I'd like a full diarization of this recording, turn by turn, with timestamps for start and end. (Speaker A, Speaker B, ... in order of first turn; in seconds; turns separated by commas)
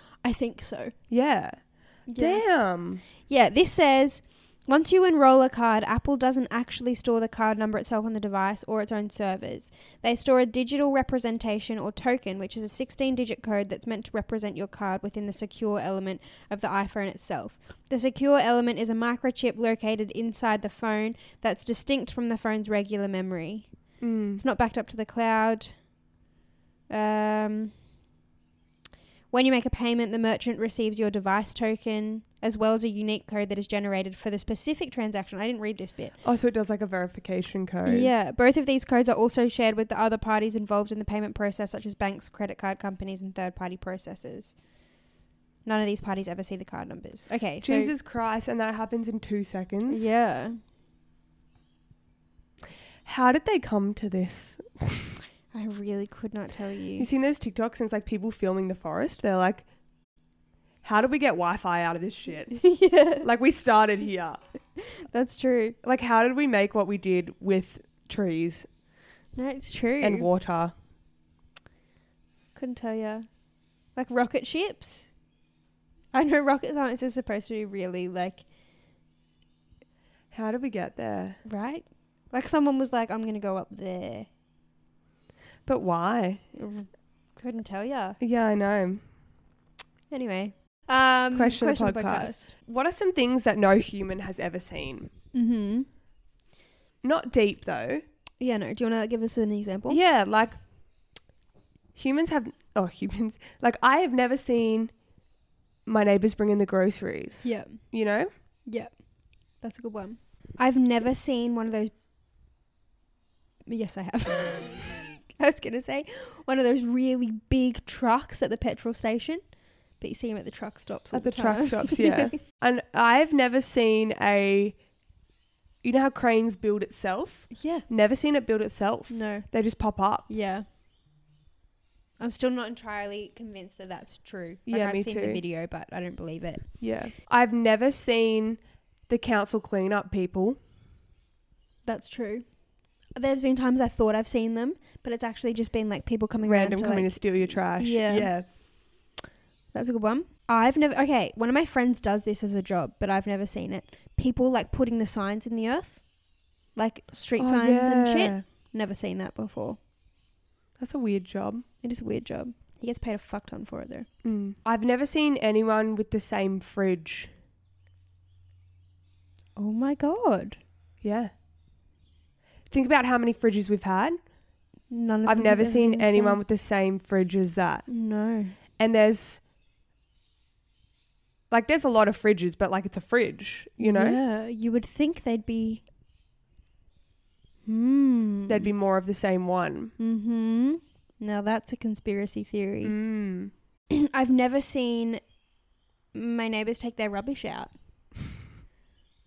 Speaker A: 0.2-0.9, Speaker B: 1.1-3.0, Speaker A: 2.1-2.5, Speaker A: 3.3-25.8, Speaker B: 24.0-24.4, Speaker A: 26.9-27.7, Speaker A: 29.3-36.2, Speaker B: 36.2-38.1, Speaker A: 37.9-44.6, Speaker A: 45.6-47.9, Speaker B: 47.6-50.1, Speaker A: 49.9-50.6, Speaker B: 53.0-55.1, Speaker A: 55.5-57.1, Speaker B: 57.0-59.6, Speaker B: 60.8-64.4, Speaker A: 62.5-63.2, Speaker A: 64.8-65.8, Speaker B: 65.8-68.7, Speaker A: 69.3-70.3, Speaker B: 70.0-70.7, Speaker A: 72.5-73.3, Speaker A: 73.9-75.1, Speaker A: 76.1-78.4, Speaker B: 80.3-81.4, Speaker A: 81.4-84.3, Speaker B: 85.7-86.4, Speaker A: 86.5-88.2, Speaker B: 88.2-89.0, Speaker A: 90.1-92.5, Speaker B: 91.3-95.1, Speaker A: 95.3-95.9, Speaker B: 97.0-98.0, Speaker A: 98.4-100.0, Speaker B: 99.9-100.6, Speaker B: 101.9-104.9, Speaker B: 105.8-108.3, Speaker A: 107.4-107.9, Speaker A: 108.7-109.1, Speaker A: 109.6-111.9, Speaker A: 113.7-119.4, Speaker A: 120.0-122.3, Speaker B: 121.1-124.8, Speaker B: 125.8-130.3, Speaker A: 127.5-127.8, Speaker A: 129.1-129.5, Speaker A: 130.3-130.7, Speaker A: 132.2-136.9, Speaker B: 134.7-135.4, Speaker B: 136.8-140.6, Speaker A: 141.8-142.4, Speaker A: 143.1-148.5, Speaker B: 146.4-148.5, Speaker A: 149.7-156.1, Speaker A: 156.7-159.8, Speaker B: 157.4-158.4, Speaker B: 160.8-161.6, Speaker A: 161.8-164.1, Speaker B: 164.2-167.3, Speaker A: 169.6-170.6, Speaker B: 171.0-171.3, Speaker B: 172.7-174.2, Speaker A: 174.9-176.4, Speaker B: 175.2-177.9, Speaker A: 177.9-178.5, Speaker B: 178.8-179.4, Speaker B: 181.5-184.2, Speaker A: 183.8-185.8, Speaker A: 187.7-188.7, Speaker B: 188.5-189.9, Speaker A: 190.0-193.0, Speaker B: 192.8-193.5, Speaker A: 193.9-195.2, Speaker A: 196.1-197.7